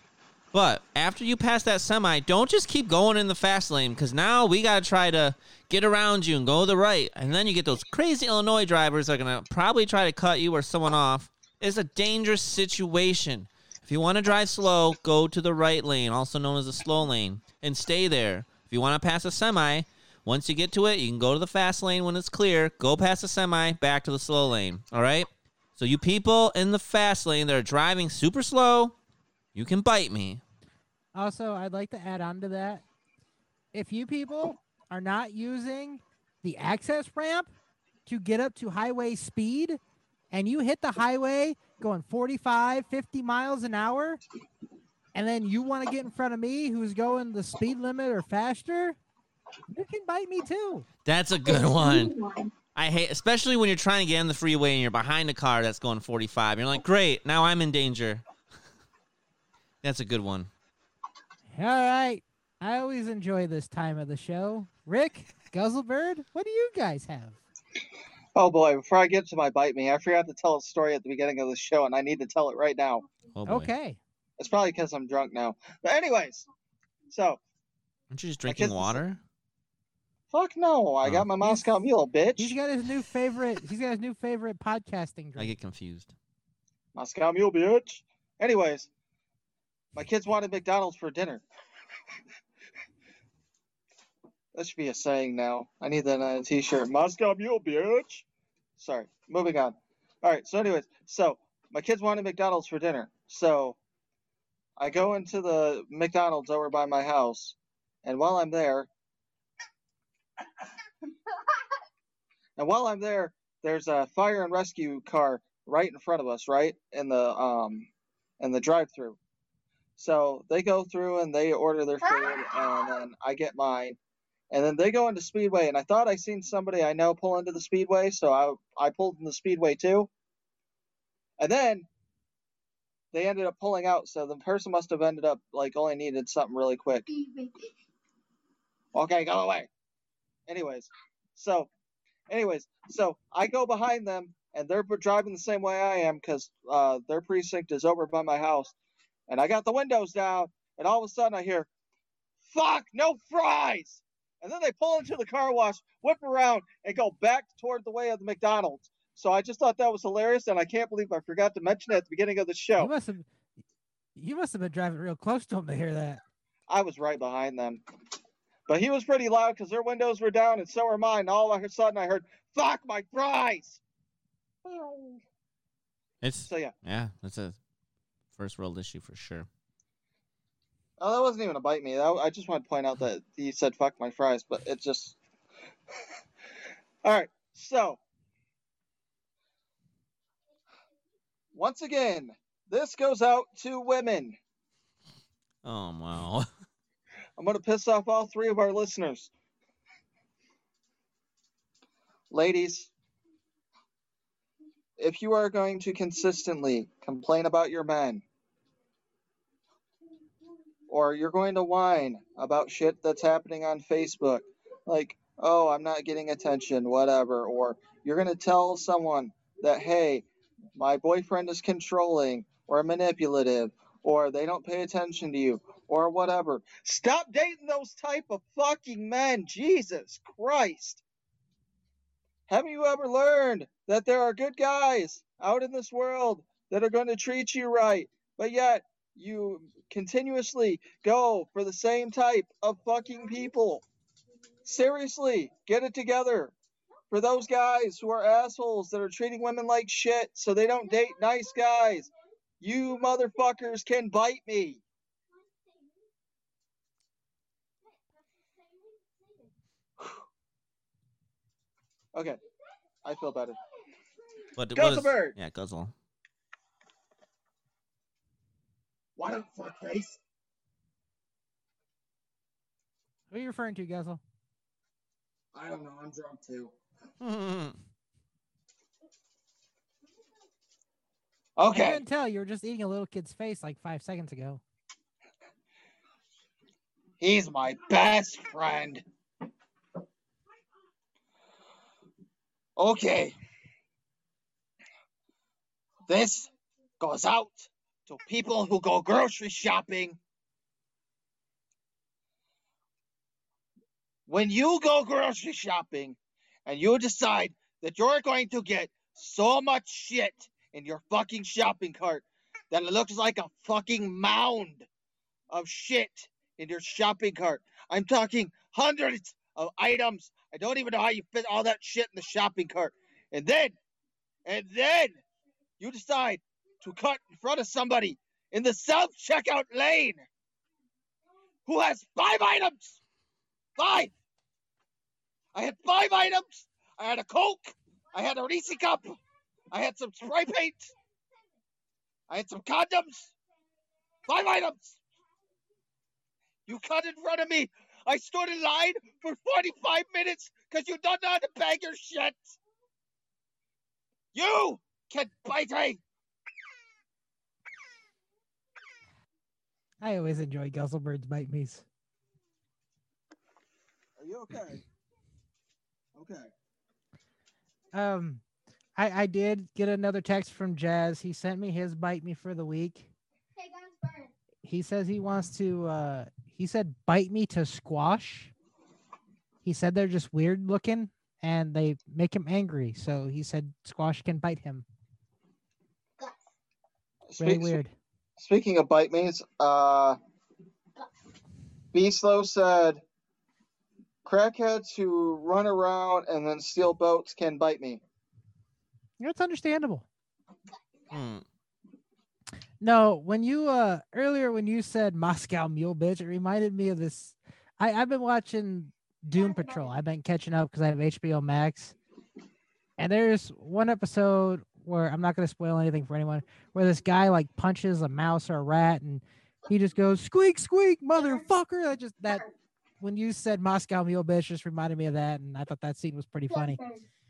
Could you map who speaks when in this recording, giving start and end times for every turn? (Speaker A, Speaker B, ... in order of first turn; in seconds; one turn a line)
Speaker A: 0.5-28.9
Speaker A: 29.6-30.4
Speaker B: 31.1-32.8
Speaker B: 33.7-37.5
Speaker B: 38.1-39.8
Speaker B: 40.3-44.2
Speaker B: 45.1-49.0
Speaker B: 49.7-50.9
Speaker A: 51.0-52.1
Speaker C: 51.4-52.5
Speaker A: 52.8-58.2
Speaker A: 59.8-60.5
Speaker B: 61.5-67.4
Speaker D: 68.3-73.1
Speaker A: 73.3-73.7
Speaker B: 73.5-74.0
Speaker D: 74.4-76.5
Speaker D: 77.1-77.4
Speaker A: 78.1-79.2
Speaker D: 78.5-79.0
Speaker D: 80.3-82.6
Speaker B: 81.4-81.7
Speaker B: 82.4-85.5
Speaker A: 85.4-86.1
Speaker D: 87.0-88.9
Speaker D: 90.0-91.4
Speaker D: 94.5-98.3
Speaker D: 98.8-103.8
Speaker D: 104.8-108.9
Speaker D: 112.6-119.2
Speaker D: 120.0-124.0
Speaker D: 124.5-130.1
Speaker D: 131.4-131.9
Speaker D: 133.1-137.1
Speaker C: 137.1-137.6
Speaker D: 138.9-139.7
Speaker D: 140.5-141.7
Speaker D: 142.3-148.8
Speaker D: 149.3-151.7
Speaker D: 152.4-162.9
Speaker B: 162.8-163.3
Speaker B: 164.2-166.2
Speaker D: 166.7-167.8
Speaker D: 168.7-173.8
Speaker D: 174.7-175.2
Speaker A: 176.2-177.6
Speaker D: 176.5-176.7
Speaker A: 178.3-179.5
Speaker D: 181.0-185.2
Speaker D: 187.0-188.0
Speaker D: 191.5-194.4
Speaker A: 195.7-196.5
Speaker D: 197.4-199.3
Speaker D: 202.3-202.9
Speaker D: 205.0-208.2
Speaker D: 210.9-231.0
Speaker D: 232.5-243.8
Speaker D: 244.7-246.5
Speaker D: 247.1-252.1
Speaker D: 252.6-254.8
Speaker C: 255.5-255.9
Speaker C: 258.6-259.5
Speaker D: 262.1-262.4
Speaker D: 263.0-263.6
Speaker A: 264.6-265.9
Speaker D: 264.8-265.4
Speaker D: 269.2-270.2
Speaker B: 273.3-274.2
Speaker D: 275.5-276.7
Speaker A: 277.2-277.8
Speaker D: 281.6-282.0
Speaker B: 281.7-284.6
Speaker D: 287.2-289.1
Speaker D: 292.8-293.4
Speaker D: 296.1-300.2
Speaker D: 304.3-314.9
Speaker D: 315.5-323.8
Speaker D: 324.4-325.2
Speaker D: 325.8-330.3
Speaker D: 331.7-333.0
Speaker D: 333.8-334.1
Speaker D: 335.5-339.2
Speaker D: 339.7-340.9
Speaker D: 342.3-343.3
Speaker D: 344.3-345.0
Speaker D: 346.7-352.6
Speaker D: 354.3-356.0
Speaker B: 360.0-361.9
Speaker D: 364.2-364.8
Speaker D: 366.2-366.5
Speaker B: 367.9-368.4
Speaker B: 369.0-373.1
Speaker C: 373.6-374.3
Speaker B: 374.6-378.5
Speaker B: 379.6-384.9
Speaker D: 387.3-387.8
Speaker B: 387.4-387.9
Speaker D: 388.4-390.2
Speaker D: 391.9-393.0
Speaker D: 394.2-398.0
Speaker B: 399.2-400.1
Speaker A: 401.1-401.4
Speaker B: 402.8-411.9
Speaker C: 409.4-409.8
Speaker B: 413.0-422.4
Speaker C: 421.2-421.5
Speaker C: 422.2-422.5
Speaker B: 423.0-426.8
Speaker C: 426.5-427.0